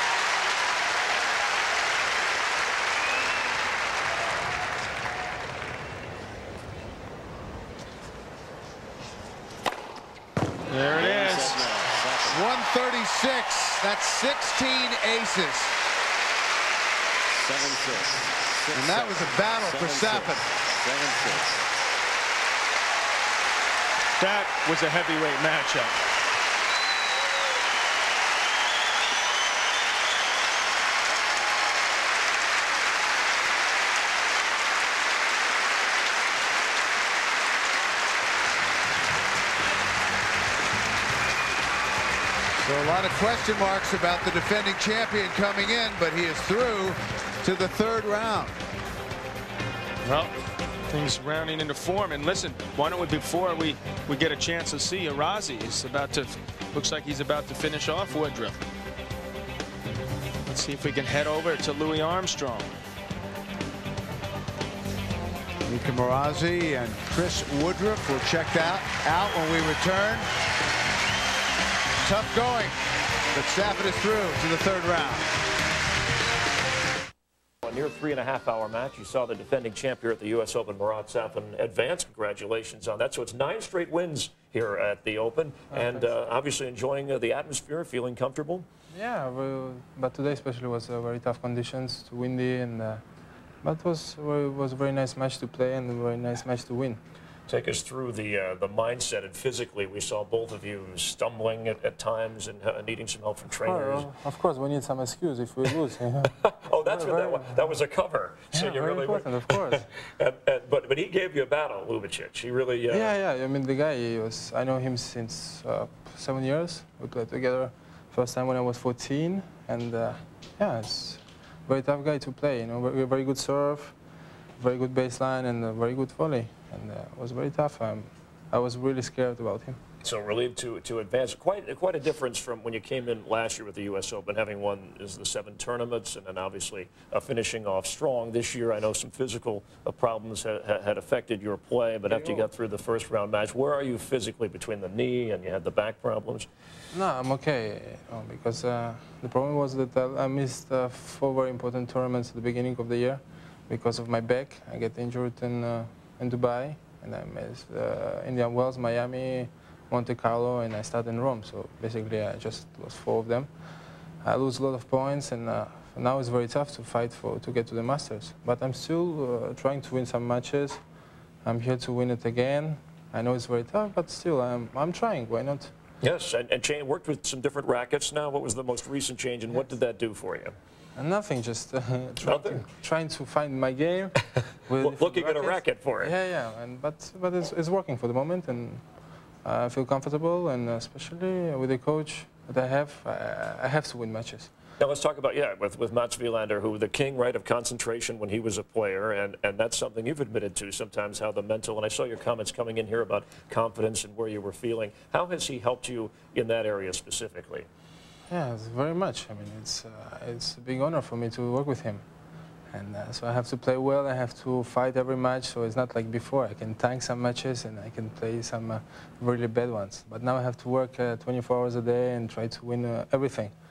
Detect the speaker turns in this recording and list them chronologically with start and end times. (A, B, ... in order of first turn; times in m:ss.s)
0:10.7-0:11.6 A
0:10.9-0:12.4 B
0:12.3-0:15.8 C
0:17.3-0:21.7 B
0:18.7-0:20.4 C
0:24.2-0:26.0 A
0:42.6-0:48.6 C
0:50.0-0:50.3 A
0:50.9-0:58.6 A
1:00.4-1:02.8 A
1:05.6-1:10.3 C
1:12.0-1:12.8 C
1:13.3-1:15.3 C
1:17.6-1:28.7 D
1:25.7-1:26.1 E
1:28.9-1:33.0 E
1:33.6-1:37.0 E
1:37.5-1:44.1 D
1:43.6-1:47.7 E
1:46.3-1:53.1 D
1:48.5-1:49.8 E
1:52.9-2:04.0 E
2:04.6-2:09.8 E
2:10.0-2:26.5 D
2:22.1-2:22.5 E
2:26.9-2:43.5 E
2:44.2-2:50.8 E
2:51.4-2:55.7 E
2:56.0-3:00.6 D
3:01.0-3:08.8 E
3:02.2-3:02.7 D
3:04.8-3:06.1 D
3:09.4-3:14.5 E
3:14.8-3:27.7 D
3:28.3-3:32.0 E
3:32.7-3:43.5 E